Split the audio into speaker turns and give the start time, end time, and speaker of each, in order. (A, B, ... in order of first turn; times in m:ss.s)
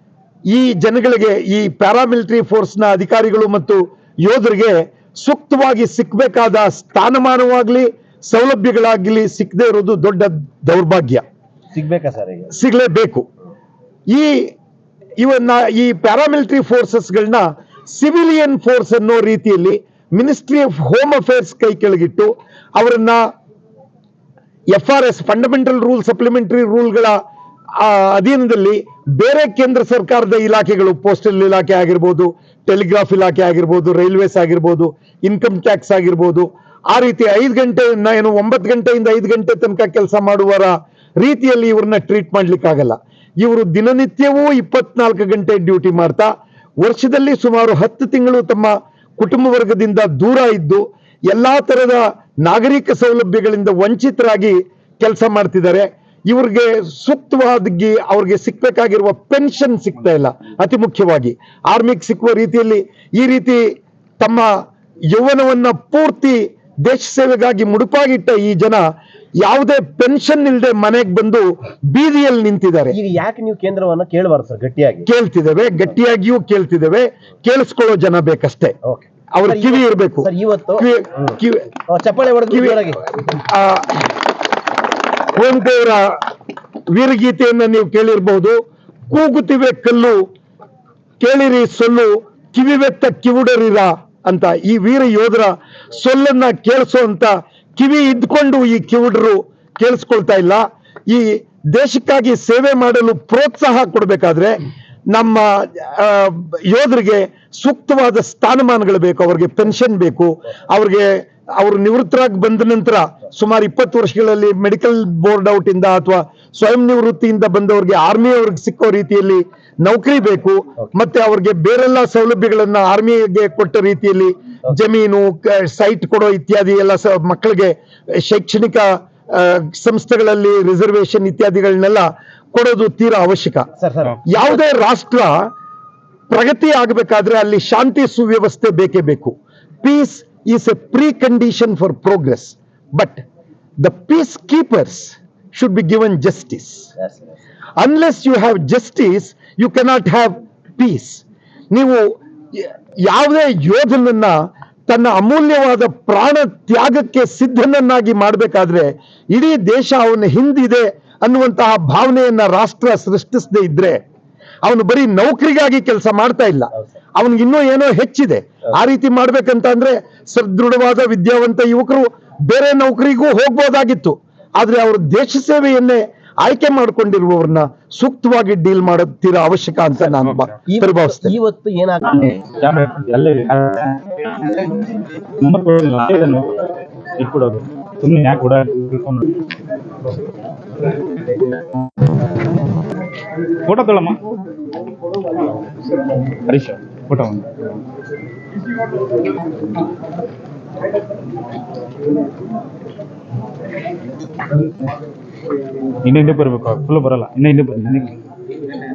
0:00.5-0:11.2 A
0:11.7-0:12.5 B
0:12.5-0:13.3 A
0:14.1-0:14.5 A
0:15.2-0:23.2 A
0:24.7-0:27.2 A
0:27.8-0:46.3 A
0:46.8-1:03.6 A
1:04.2-1:04.5 A
1:05.1-1:08.8 A
1:09.4-1:13.0 A
1:12.9-1:15.1 B
1:15.0-1:18.8 A
1:18.8-1:21.3 B
1:19.3-1:21.8 A
1:21.9-1:23.0 B
1:22.4-1:24.3 A
1:25.3-1:26.2 A
1:26.9-1:30.2 A
1:31.2-2:13.7 A
2:13.8-2:14.1 B
2:14.2-2:15.5 A
2:16.3-2:23.2 A
2:23.8-2:26.9 A
2:27.8-2:34.4 A
2:34.9-2:44.0 A
2:44.6-3:01.4 A
3:00.6-3:02.4 B
3:02.1-3:04.6 C
3:05.4-3:06.5 C
3:07.2-3:09.2 C
3:13.7-3:14.2 C
3:16.5-3:17.7 C
3:26.0-3:28.1 C